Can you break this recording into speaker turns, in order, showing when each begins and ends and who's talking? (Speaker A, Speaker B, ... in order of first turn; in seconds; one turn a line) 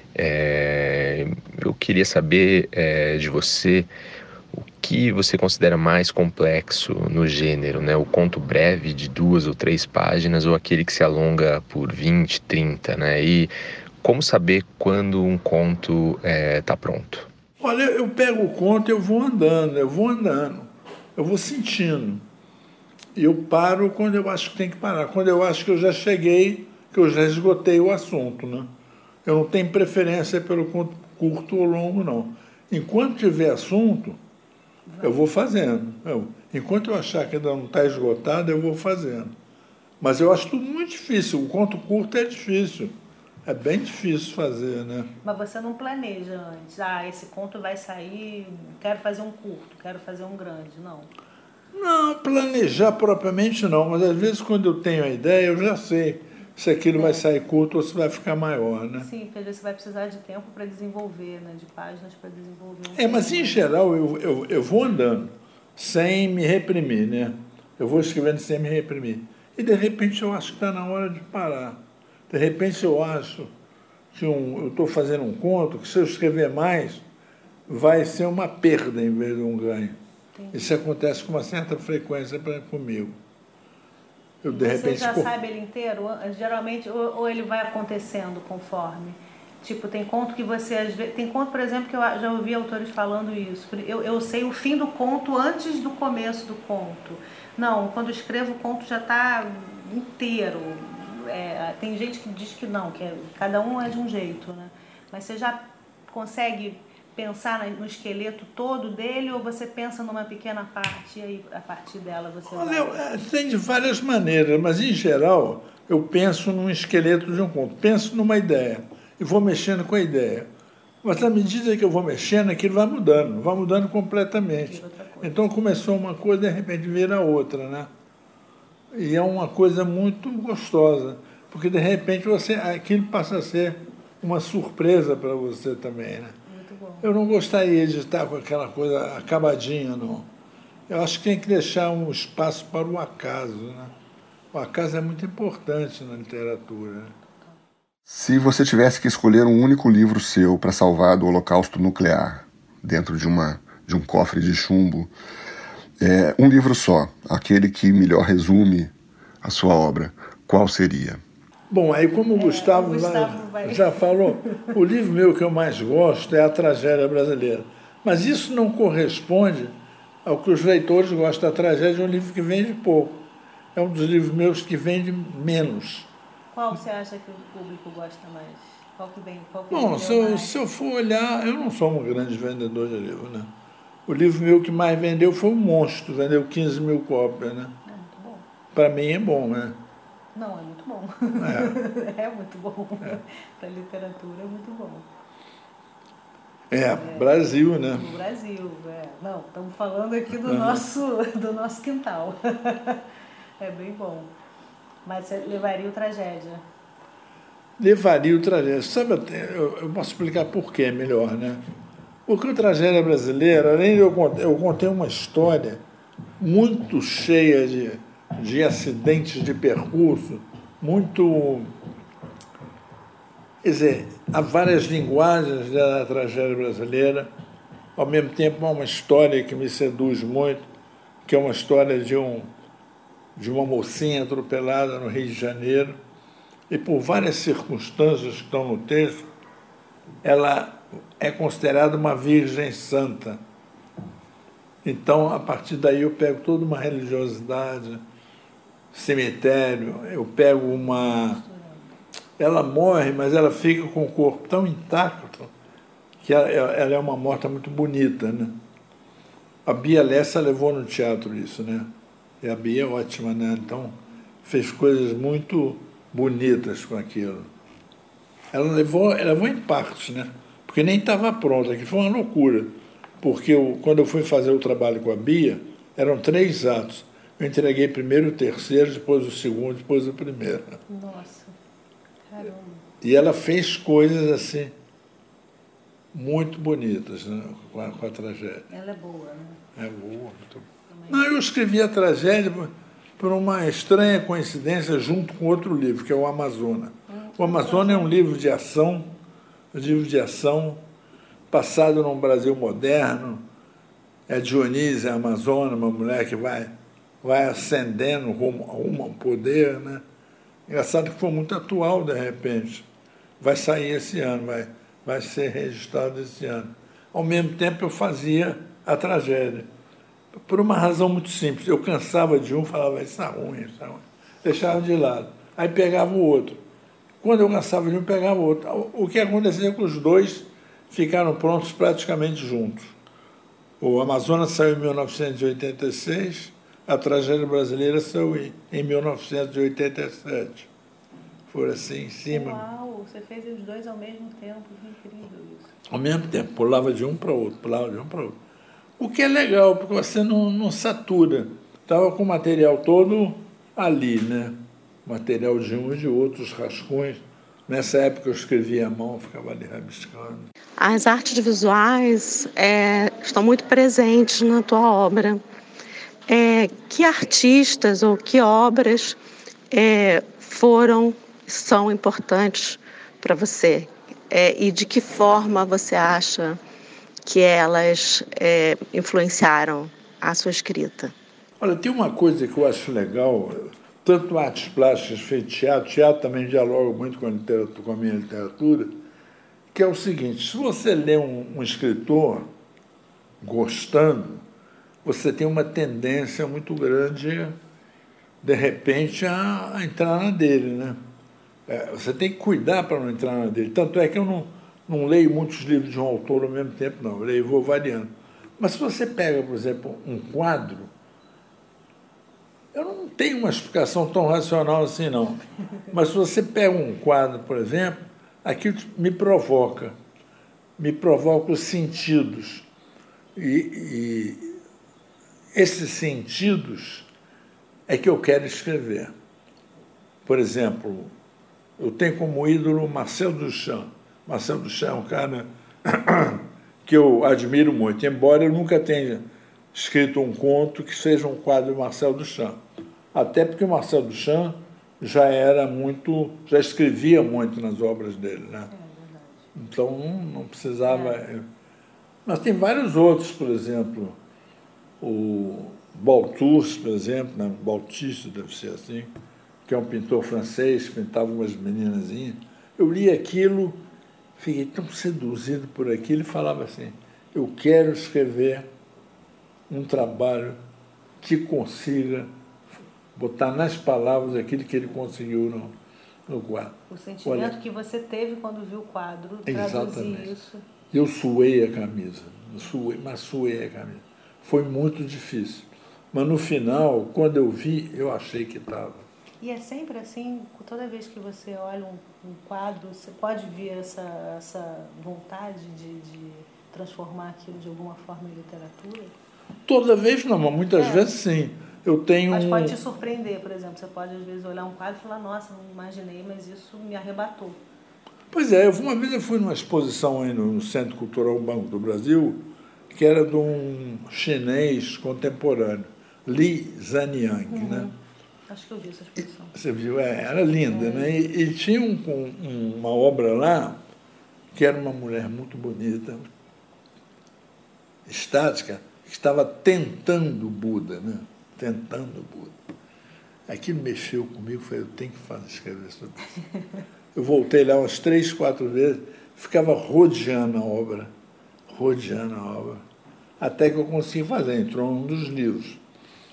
Speaker A: 0.1-3.9
Speaker A: 4.8-13.5
Speaker A: 14.0-17.3
Speaker B: 17.6-22.2
Speaker B: 23.1-28.7
Speaker B: 29.2-34.2
Speaker C: 34.9-35.2
Speaker B: 35.0-39.3
Speaker B: 40.0-42.9
Speaker B: 43.5-45.1
Speaker C: 45.2-51.1
Speaker B: 51.7-59.1
Speaker C: 56.9-57.2
Speaker C: 59.0-63.7
Speaker B: 62.9-73.5
Speaker B: 74.1-77.0
Speaker B: 77.7-80.0
Speaker C: 80.4-80.8
Speaker B: 80.5-83.2
Speaker B: 84.4-85.3
Speaker C: 84.5-113.0
Speaker B: 112.5-120.5
Speaker B: 121.0-127.9
Speaker C: 124.3-125.5
Speaker B: 128.9-136.3
Speaker C: 136.4-137.1
Speaker B: 137.0-140.3
Speaker B: 140.9-143.9
Speaker B: 144.5-147.1
Speaker D: 148.1-155.1
Speaker D: 156.0-161.2
Speaker B: 161.7-176.1
Speaker C: 162.3-164.7
Speaker C: 176.5-180.6
Speaker B: 179.7-183.5
Speaker B: 184.1-187.7
Speaker C: 187.8-188.5
Speaker B: 188.7-189.8
Speaker C: 190.3-195.1
Speaker B: 191.4-191.8
Speaker B: 196.7-198.1
Speaker C: 196.9-203.0
Speaker B: 200.4-200.8
Speaker C: 203.6-204.3
Speaker C: 205.0-206.7
Speaker B: 207.8-211.6
Speaker B: 212.2-215.8
Speaker B: 216.4-221.7
Speaker B: 223.6-227.3
Speaker B: 227.9-230.7
Speaker B: 231.2-232.5
Speaker B: 233.3-236.0
Speaker B: 236.7-239.3
Speaker B: 240.2-243.4
Speaker B: 244.8-248.0
Speaker B: 248.9-251.4
Speaker C: 250.7-251.8
Speaker B: 252.4-255.5
Speaker B: 256.2-258.6
Speaker B: 259.6-267.5
Speaker B: 268.5-280.8
Speaker C: 280.9-281.5
Speaker C: 282.2-282.8
Speaker B: 283.0-284.7
Speaker B: 286.1-288.6
Speaker C: 288.7-289.6
Speaker B: 289.8-299.1
Speaker C: 290.9-291.3
Speaker C: 297.1-298.2
Speaker B: 299.7-300.8
Speaker B: 301.5-303.4
Speaker B: 304.3-310.0
Speaker B: 310.7-312.9
Speaker B: 313.4-319.7
Speaker B: 320.3-326.6
Speaker B: 327.2-332.9
Speaker B: 333.8-340.7
Speaker B: 341.5-342.6
Speaker C: 342.3-345.7
Speaker B: 345.9-348.4
Speaker B: 349.0-360.5
Speaker E: 360.8-365.4
Speaker E: 366.3-369.2
Speaker E: 369.7-376.6
Speaker E: 377.2-381.1
Speaker B: 381.6-389.0
Speaker B: 389.7-392.5
Speaker B: 393.4-394.4
Speaker B: 395.0-397.6
Speaker B: 398.4-401.0
Speaker B: 401.7-410.9
Speaker B: 412.7-419.9
Speaker B: 420.8-422.7
Speaker B: 423.3-424.5
Speaker B: 425.5-427.1
Speaker B: 427.9-429.1
Speaker B: 430.2-431.1
Speaker B: 431.8-442.6
Speaker B: 443.1-448.7
Speaker C: 448.7-449.5
Speaker B: 449.5-451.4
Speaker C: 450.8-451.2
Speaker B: 452.2-454.2
Speaker B: 455.0-459.1
Speaker B: 459.6-463.8
Speaker B: 464.4-468.7
Speaker B: 469.7-470.6
Speaker B: 471.2-472.3
Speaker B: 473.1-475.7
Speaker B: 476.3-477.6
Speaker C: 476.9-480.6
Speaker B: 479.4-480.3
Speaker B: 480.9-489.1
Speaker C: 489.4-499.1
Speaker B: 499.6-502.8
Speaker C: 500.7-501.1
Speaker C: 502.3-507.6
Speaker B: 508.3-517.9
Speaker C: 517.5-517.9
Speaker C: 518.5-519.5
Speaker B: 519.5-523.8
Speaker C: 520.7-521.2
Speaker B: 524.5-526.3
Speaker B: 528.0-532.5
Speaker B: 533.5-536.3
Speaker B: 537.1-541.1
Speaker B: 541.7-542.8
Speaker B: 543.4-545.8